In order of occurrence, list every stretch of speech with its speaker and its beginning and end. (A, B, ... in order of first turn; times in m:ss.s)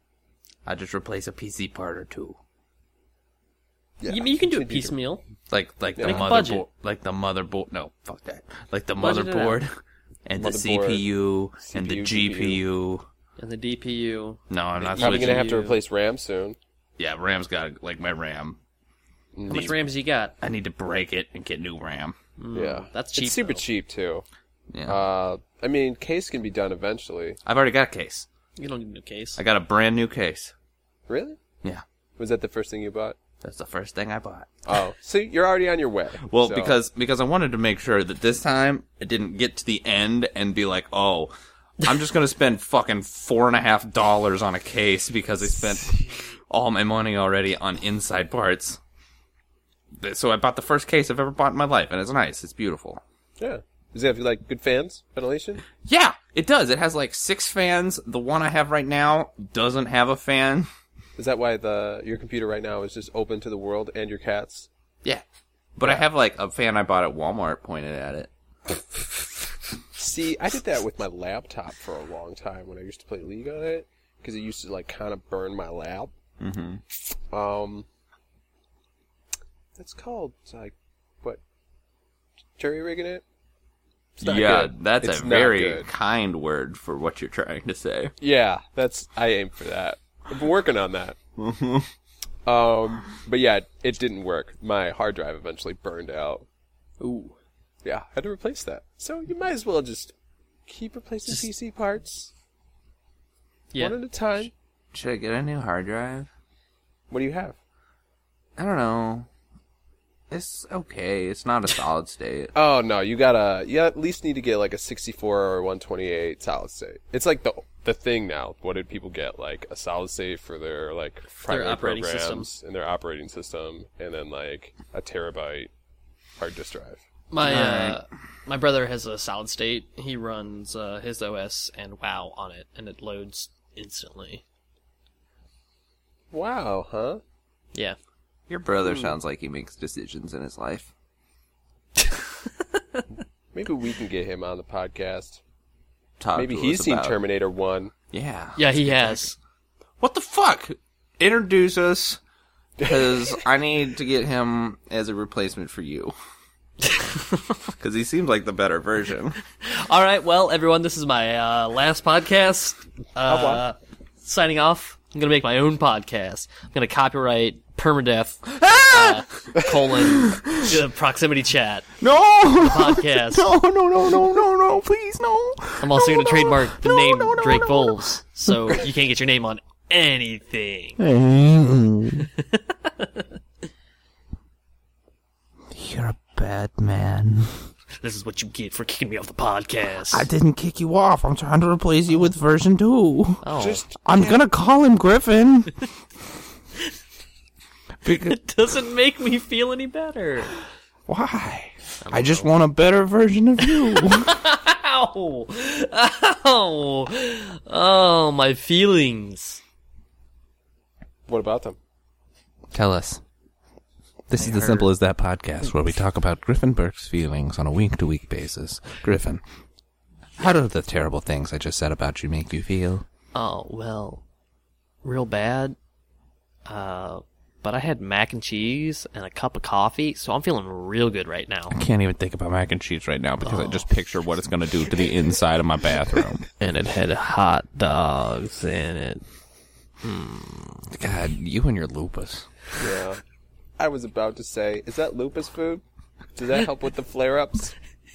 0:00.6-0:02.4 A
0:04.0-0:05.0 B
0:04.1-0:05.2 C
0:05.5-0:09.7 A
0:06.0-0:06.3 B
0:06.0-0:06.7 C
0:09.0-0:09.6 C
0:10.3-0:13.1 A
0:10.4-0:11.1 B
0:11.6-0:12.6 B
0:13.4-0:15.8 C
0:14.5-0:15.5 A
0:14.9-0:16.6 B
0:17.0-0:18.6 A
0:19.4-0:19.7 B
0:19.5-0:20.4 C
0:20.4-0:22.2 A
0:22.4-0:23.6 C
0:22.5-0:24.2 B
0:24.7-0:25.0 A
0:24.9-0:27.4 B
0:27.4-0:28.3 A
0:28.6-0:29.4 C
0:29.4-0:30.5 A
0:31.1-0:31.4 B
0:32.2-0:33.2 B
0:33.4-0:34.6 A
0:34.7-0:36.8 B
0:36.2-0:48.8 A
0:50.0-0:53.0 A
0:53.4-0:55.7 B
0:55.8-1:00.7 A
1:01.2-1:04.7 B
1:05.8-1:08.3 A
1:10.0-1:16.1 B
1:16.4-1:16.8 A
1:17.3-1:17.9 B
1:19.8-1:21.4 B
1:22.6-1:23.2 B
1:24.2-1:25.9 B
1:24.2-1:28.1 A
1:28.2-1:31.2 B
1:31.4-1:31.9 A
1:32.5-1:36.5 B
1:37.0-1:37.4 C
1:37.8-1:40.1 B
1:40.7-1:42.3 B
1:43.8-1:44.5 B
1:44.9-1:46.3 A
1:47.1-1:47.6 B
1:48.6-1:49.3 A
1:50.3-1:52.5 A
1:52.6-2:05.7 B
2:01.5-2:02.5 C
2:06.4-2:07.0 B
2:07.3-2:14.4 C
2:07.4-2:08.0 A
2:16.3-2:17.2 B
2:18.5-2:20.9 A
2:23.5-2:25.4 B
2:26.2-2:27.2 A
2:26.4-2:27.9 B
2:28.1-2:29.2 A
2:28.6-2:29.4 C
2:30.0-2:32.2 A
2:32.8-2:33.4 B
2:32.8-2:36.1 A
2:36.8-2:37.5 C
2:37.8-2:39.4 A
2:39.6-2:51.9 C
2:43.3-2:43.6 B
2:48.5-2:49.2 A
2:50.0-2:50.8 A
2:52.0-2:58.5 A
2:52.6-2:53.5 C
2:55.8-3:01.0 C
3:01.0-3:02.3 A
3:02.4-3:03.3 C
3:05.7-3:07.5 A
3:08.0-3:10.3 C
3:10.1-3:13.4 A
3:13.4-3:13.8 C
3:13.6-3:14.4 B
3:14.0-3:15.8 A
3:18.0-3:18.4 A
3:18.2-3:20.6 C
3:21.1-3:24.4 A
3:22.0-3:22.5 C
3:23.6-3:29.6 C
3:31.3-3:31.8 B
3:32.7-3:33.2 A
3:34.3-3:39.4 A
3:34.4-3:34.9 C
3:40.4-3:43.0 A
3:43.3-3:44.2 C
3:45.0-3:45.8 C
3:46.7-3:51.8 C
3:51.7-3:56.4 A
3:53.4-3:53.9 C
3:56.6-3:59.3 C
4:00.0-4:00.9 C
4:00.9-4:02.5 A
4:02.8-4:03.2 B
4:03.8-4:05.8 B
4:06.4-4:07.8 B